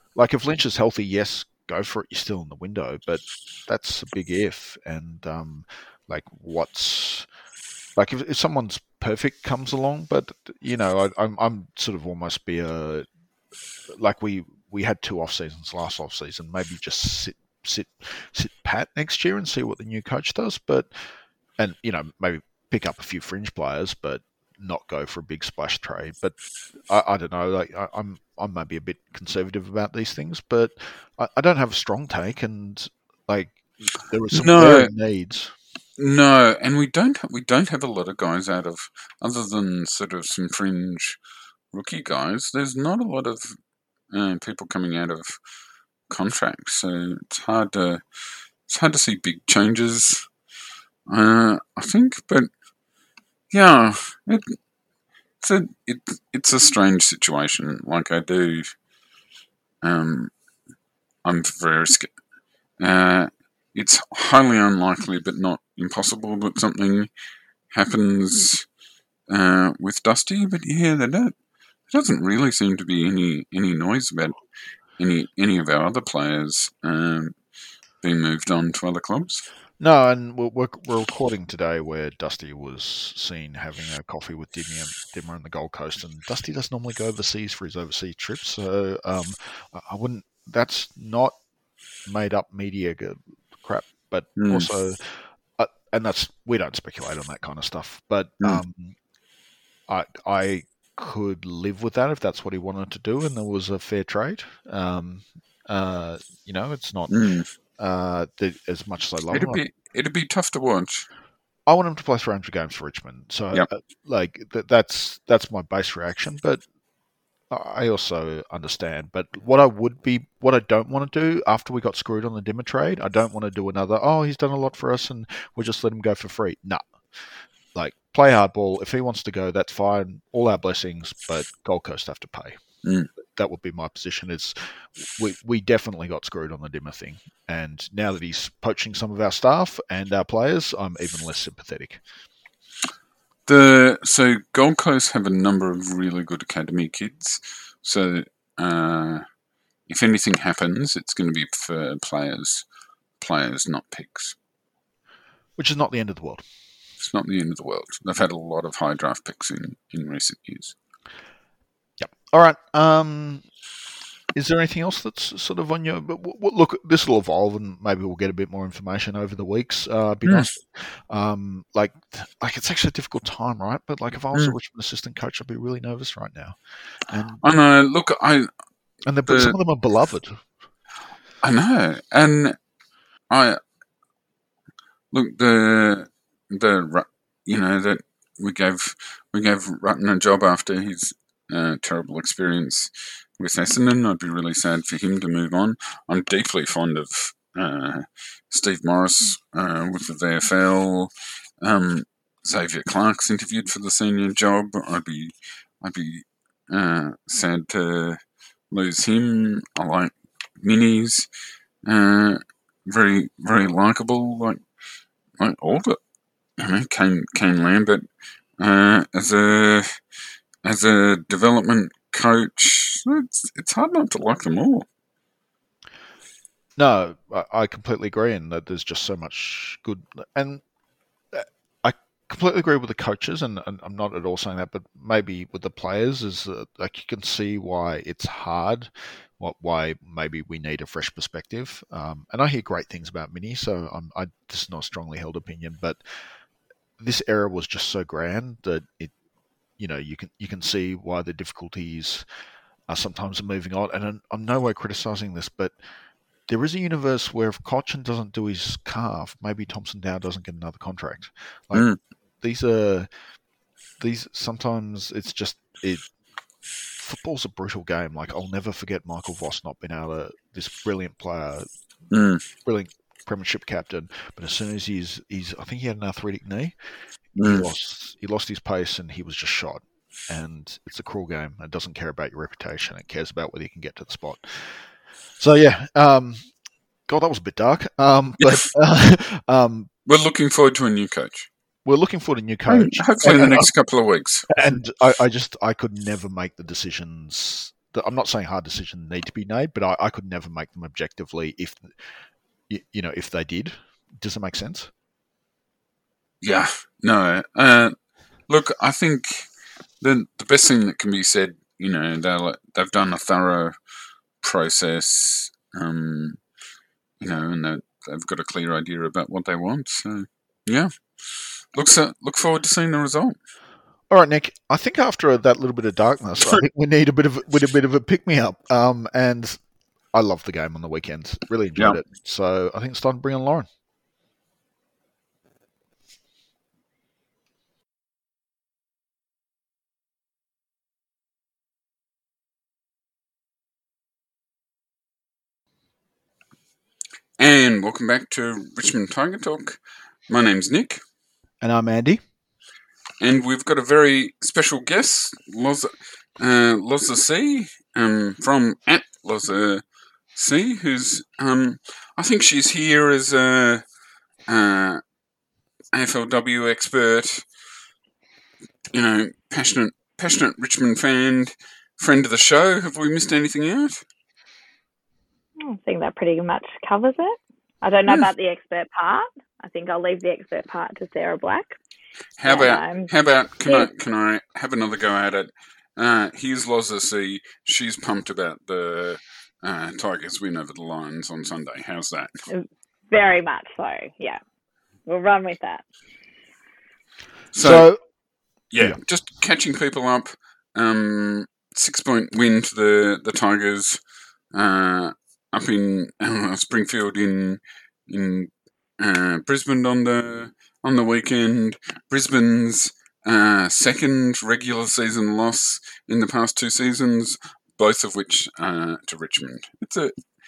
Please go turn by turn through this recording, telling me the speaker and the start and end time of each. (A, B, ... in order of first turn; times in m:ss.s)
0:00.1-0:07.3 A
0:08.0-0:13.1 A
0:13.9-0:20.9 A
0:21.6-0:35.5 A
0:34.3-0:34.9 B
0:36.0-0:41.2 B
0:41.7-0:43.6 B
0:44.1-0:45.4 B
0:46.1-0:48.0 B
0:48.6-0:50.3 B
0:51.1-0:52.5 B
0:53.5-0:54.6 B
0:55.4-0:58.8 B
0:59.8-1:00.4 B
1:01.2-1:02.2 B
1:02.8-1:07.1 B
1:07.7-1:08.7 B
1:09.3-1:11.3 B
1:11.9-1:14.4 B
1:15.0-1:17.4 B
1:18.0-1:19.4 B
1:19.8-1:31.4 A
1:32.0-1:39.0 A
1:34.4-1:34.7 B
1:39.9-1:47.2 A
1:47.1-1:47.5 B
1:47.8-1:49.6 A
1:49.3-1:51.1 B
1:51.6-1:56.6 A
1:57.5-2:06.9 A
2:07.7-2:12.6 A
2:12.8-2:13.1 B
2:13.2-2:22.0 A
2:23.5-2:29.2 B
2:29.9-2:32.6 B
2:33.2-2:34.4 B
2:35.6-2:36.4 A
2:37.0-2:40.8 B
2:42.0-2:43.4 A
2:44.3-2:57.4 A
2:57.4-2:58.5 B
2:59.0-3:00.4 A
2:59.2-2:59.6 B
3:01.4-3:02.6 B
3:03.3-3:03.6 B
3:05.1-3:28.2 B
3:28.7-3:31.3 B
3:31.8-3:34.6 B
3:35.4-3:36.0 B
3:36.6-3:38.0 B
3:38.6-3:39.9 B
3:40.6-3:44.9 B
3:46.8-3:50.6 A
3:51.3-4:06.0 A
4:07.0-4:09.1 A
4:09.8-4:12.2 A
4:12.9-4:15.7 A
4:16.5-4:21.9 A
4:21.7-4:22.0 B
4:22.4-4:23.1 A
4:24.0-4:26.0 A
4:27.0-4:31.7 A
4:32.1-4:32.4 B
4:32.6-4:36.7 A
4:37.4-4:37.7 B
4:37.4-4:46.5 A
4:47.1-4:49.9 A
4:48.4-4:48.7 B
4:50.0-4:51.5 B
4:51.8-4:53.7 A
4:52.7-4:54.6 B
4:54.5-5:01.9 A
5:02.7-5:04.9 A
5:06.4-5:08.0 B
5:08.5-5:09.5 B
5:10.0-5:13.8 B
5:14.4-5:16.4 B
5:17.2-5:23.4 B
5:24.1-5:29.6 A
5:30.1-5:33.7 A
5:47.4-5:51.0 B
5:51.6-5:52.2 A
5:53.2-6:03.8 B
6:04.5-6:05.0 B
6:05.9-6:07.5 B
6:08.9-6:14.0 B
6:15.6-6:21.8 C
6:22.4-6:32.4 B
6:22.4-6:23.1 C
6:32.5-6:34.4 C
6:35.0-6:35.8 C
6:37.5-6:37.9 B
6:37.6-6:38.0 A
6:38.7-6:44.0 B
6:44.5-7:00.1 B